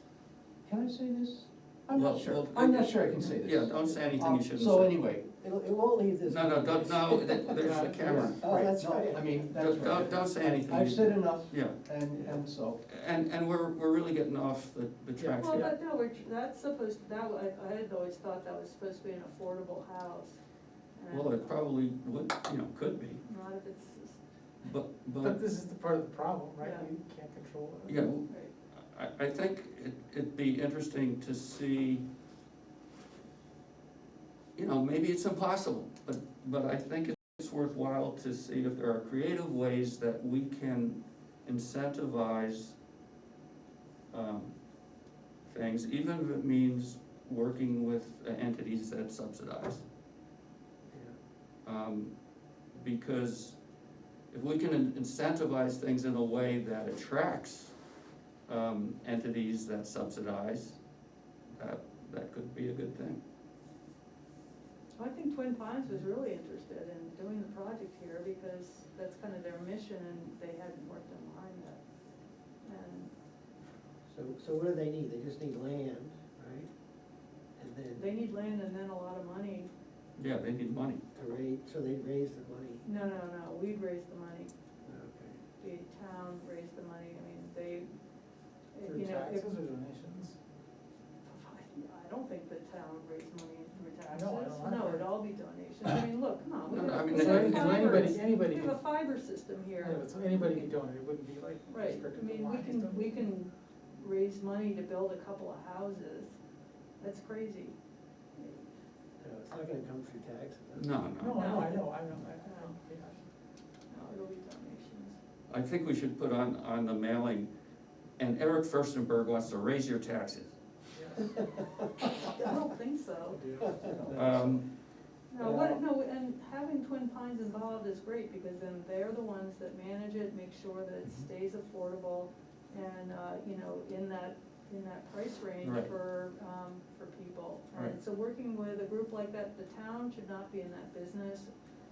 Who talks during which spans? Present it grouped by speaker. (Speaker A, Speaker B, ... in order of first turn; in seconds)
Speaker A: 0.6-5.3, 8.3-12.8
Speaker B: 1.9-5.0, 6.2-8.4, 9.5-15.7, 21.1-23.2, 24.6-25.4, 27.9-32.0, 34.5-42.8, 44.1-44.5, 45.5-49.8, 51.6-52.1, 52.7-53.6, 54.3-57.7, 58.5-60.8, 61.5-63.2, 80.2-81.0, 96.7-98.1, 110.7-111.6, 115.5-117.5, 118.2-120.5, 124.1-124.6, 135.6-135.9
Speaker C: 5.3-10.1, 74.1-76.7, 77.6-78.0, 81.1-82.8, 84.8-85.4, 109.2-110.9, 125.4-125.8
Speaker D: 6.8-8.4, 15.4-15.7, 25.2-28.2, 88.8-90.4, 94.1-95.1, 97.1-98.8, 99.8-103.2, 111.2-113.2, 120.9-121.3, 123.3-124.5
Speaker E: 15.4-20.4, 21.0-21.5, 23.2-24.2, 26.6-26.9, 28.2-28.5, 65.0-71.8, 72.6-73.1, 78.0-79.7, 82.8-84.5, 85.6-87.9, 88.7-89.5, 91.2-100.0, 101.7-106.3, 107.0-107.7, 108.3-108.7, 111.3-111.8, 112.4-112.8, 113.9-115.2, 122.3-123.7, 125.3-141.5